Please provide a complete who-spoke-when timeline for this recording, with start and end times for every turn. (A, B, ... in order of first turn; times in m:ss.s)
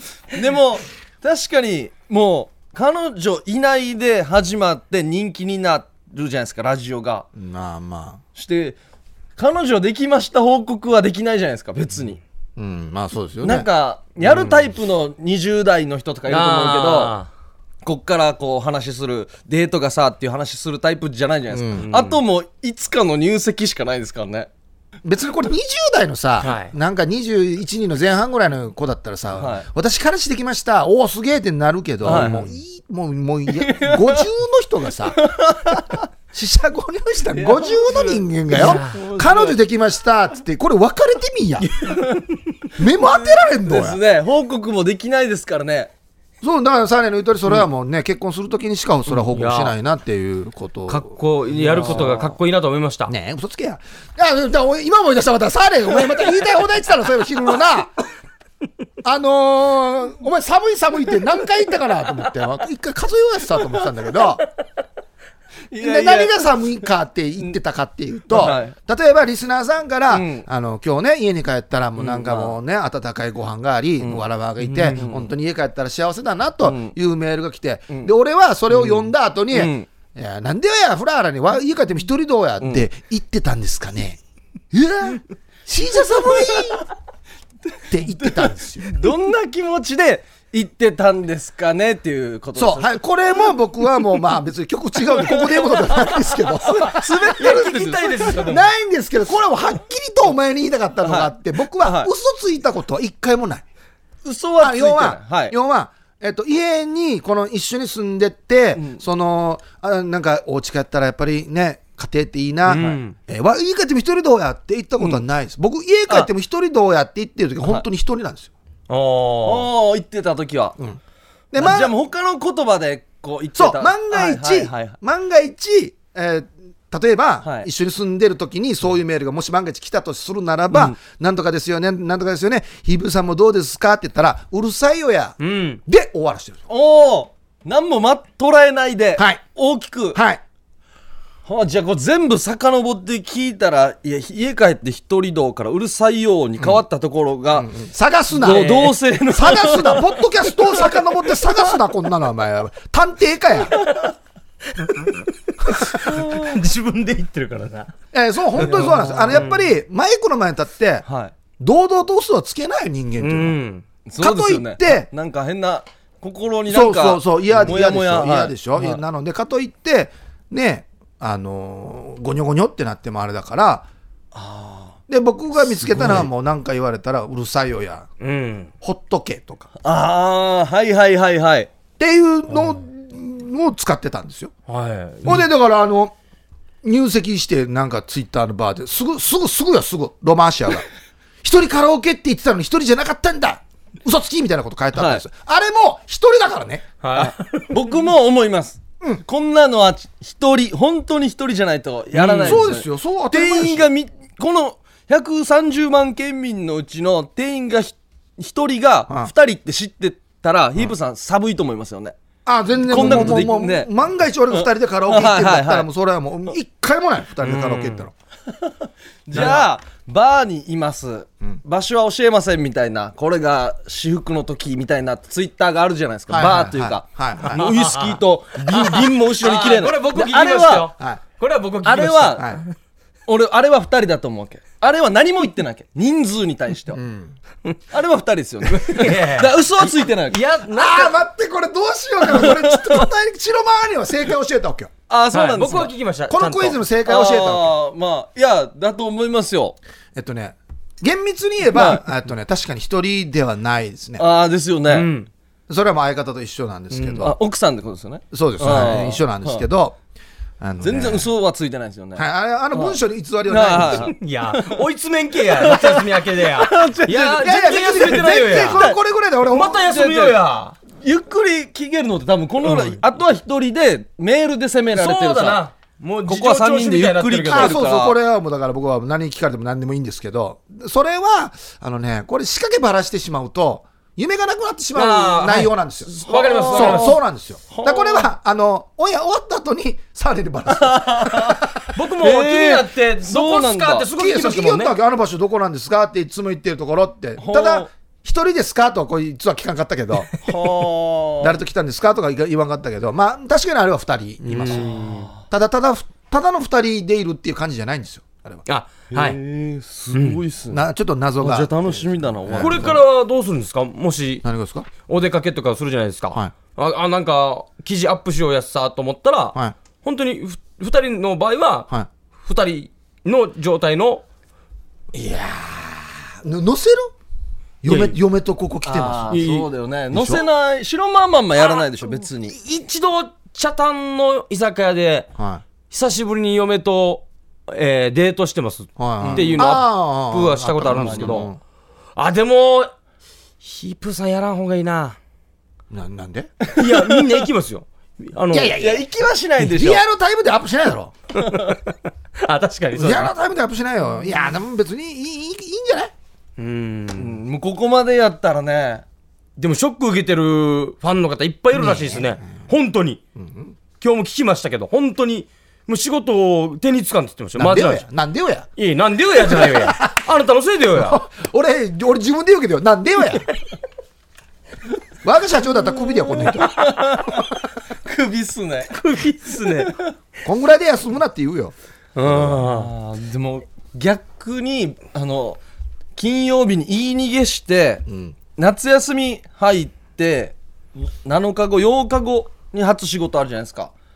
0:00.3-0:07.2 A
0:07.3-0:08.2 B
0:08.4-0:08.8 A
0:09.4-0:12.2 A
0:12.6-0:13.7 B
0:13.4-0:17.2 A
0:16.3-0:17.3 C
0:17.8-0:24.5 A
0:21.5-0:21.8 B
0:21.8-0:22.2 C
0:25.0-0:35.2 B
0:26.4-0:26.7 C
0:29.4-0:29.7 A
0:32.0-0:32.4 A
0:32.0-0:32.5 C
0:33.5-0:34.2 A
0:35.2-0:36.0 A
0:36.3-0:41.7 B
0:37.3-0:39.6 A
0:38.6-0:39.0 C
0:41.8-0:42.2 C
0:41.9-0:42.2 A
0:42.8-0:44.0 B
0:43.1-0:45.9 A
0:46.4-0:51.1 B
0:49.3-0:49.7 C
0:50.9-0:53.1 C
0:51.6-0:52.3 A
0:51.7-0:52.1 B
0:53.1-0:57.9 B
0:59.0-1:04.4 B
1:05.7-1:06.4 A
1:05.8-1:24.2 B
1:08.3-1:08.7 A
1:10.1-1:10.5 A
1:12.0-1:12.6 A
1:14.0-1:15.3 A
1:16.6-1:16.9 A
1:18.7-1:19.9 A
1:22.6-1:22.8 A
1:24.7-1:26.8 B
1:27.9-1:28.9 B
1:28.2-1:33.0 A
1:32.5-1:37.5 B
1:35.2-1:36.1 A
1:36.7-1:38.6 A
1:37.4-1:38.6 C
1:38.3-1:43.6 B
1:41.0-1:42.1 A
1:44.2-1:45.5 A
1:44.6-1:58.5 B
1:48.8-1:49.0 A
1:52.7-1:53.2 C
1:52.7-1:53.0 A
1:58.9-1:59.7 C
1:59.4-2:00.8 A
2:01.5-2:01.9 B
2:01.6-2:05.0 A
2:03.6-2:16.6 B
2:07.4-2:07.7 A
2:10.7-2:11.0 A
2:15.4-2:15.8 C
2:16.7-2:20.2 A
2:19.2-2:19.4 B
2:20.1-2:20.4 B
2:21.4-2:27.7 A
2:27.5-2:33.8 B
2:28.3-2:31.4 A
2:28.4-2:28.9 C
2:34.8-2:37.9 C
2:38.1-2:41.0 B
2:38.6-2:39.5 A
2:38.7-2:39.6 C
2:41.0-2:41.3 A
2:41.6-2:43.6 B
2:43.2-2:43.8 C
2:44.0-2:49.0 A
2:44.2-2:45.1 B
2:46.7-2:53.9 B
2:54.3-2:55.0 A
2:55.1-2:58.1 B
2:55.9-2:56.2 A
2:58.2-2:58.7 C
2:58.8-2:59.7 B
2:59.8-3:01.7 A
3:02.0-3:04.5 B
3:04.7-3:05.4 C
3:05.2-3:06.1 B
3:06.8-3:10.8 B
3:11.4-3:16.9 B
3:14.9-3:15.2 A
3:17.0-3:17.8 C
3:17.1-3:32.2 A
3:22.1-3:22.6 C
3:22.4-3:23.9 B
3:32.4-3:38.1 B
3:32.9-3:33.9 A
3:33.0-3:33.3 C
3:34.5-3:35.9 A
3:37.4-3:38.0 C
3:39.3-3:50.9 A
3:39.3-3:39.6 B
3:39.3-3:39.6 C
3:46.3-3:47.6 B
3:47.5-3:52.7 C
3:51.8-3:52.4 A
3:52.4-3:52.6 B
3:53.3-3:57.0 A
3:56.9-3:57.4 B
3:57.9-4:00.4 A
3:58.8-4:01.2 C
4:00.7-4:04.9 B
4:02.3-4:03.0 A
4:05.1-4:05.9 A
4:05.3-4:06.8 C
4:06.3-4:07.7 B
4:07.0-4:09.8 A
4:10.1-4:14.2 B
4:11.7-4:12.0 A
4:14.2-4:15.1 A
4:14.9-4:15.3 C
4:15.7-4:17.4 B
4:16.9-4:17.2 C
4:17.2-4:19.6 A
4:18.3-4:20.0 B
4:20.6-4:21.3 B
4:20.8-4:24.8 A
4:22.2-4:24.1 B
4:23.9-4:28.9 C
4:25.5-4:29.0 A
4:27.1-4:29.8 B
4:29.5-4:30.7 C
4:29.8-4:30.4 A
4:31.0-4:35.6 A
4:32.6-4:33.0 C
4:34.9-4:37.8 C
4:36.3-4:38.2 A
4:37.5-4:46.1 B
4:44.9-4:47.2 C
4:46.2-4:47.2 A
4:46.7-4:51.6 B
4:47.7-4:48.2 A
4:50.7-4:51.6 A
4:51.9-4:54.9 C
4:52.2-4:54.1 A
4:54.2-5:00.3 B
4:57.4-4:57.9 A
5:00.4-5:01.6 A
5:01.4-5:04.9 B
5:04.5-5:05.3 C
5:04.7-5:05.4 A
5:05.5-5:08.6 B
5:08.7-5:09.4 C
5:09.1-5:10.8 A
5:10.1-5:10.4 C
5:10.7-5:13.0 B
5:11.4-5:12.9 A
5:12.6-5:14.4 C
5:14.4-5:14.9 B
5:15.1-5:21.9 C
5:22.4-5:24.2 C
5:25.1-5:27.1 B
5:27.8-5:29.4 B
5:27.8-5:28.2 C
5:28.8-5:32.6 A
5:29.3-5:29.7 C
5:30.1-5:30.4 B
5:32.5-5:35.3 C
5:35.4-5:35.6 B
5:35.9-5:41.5 C
5:39.0-5:41.6 B
5:39.2-5:39.6 A
5:40.9-5:41.3 A
5:42.2-5:42.9 C
5:43.6-5:45.2 C
5:45.9-5:46.5 B
5:46.6-5:47.4 A
5:46.8-5:48.8 C
5:48.5-5:49.0 B
5:48.8-5:50.0 A
5:49.6-5:51.1 B
5:51.4-5:51.7 A
5:51.5-5:51.8 C
5:52.4-5:53.3 C
5:52.9-5:56.1 B
5:56.6-5:57.4 C
5:57.2-5:59.0 A
5:59.6-6:03.2 C
6:01.7-6:02.6 B
6:03.3-6:03.8 B
6:04.0-6:08.0 C
6:07.6-6:08.7 B
6:08.8-6:11.2 C
6:09.4-6:10.2 B
6:10.9-6:13.5 B
6:15.2-6:16.9 B
6:16.4-6:17.4 A
6:18.0-6:18.9 A
6:18.9-6:19.9 C
6:19.7-6:20.1 A
6:20.4-6:22.6 B
6:22.2-6:22.9 C
6:22.6-6:25.6 A
6:26.2-6:28.0 A
6:28.0-6:28.3 B
6:28.6-6:33.9 A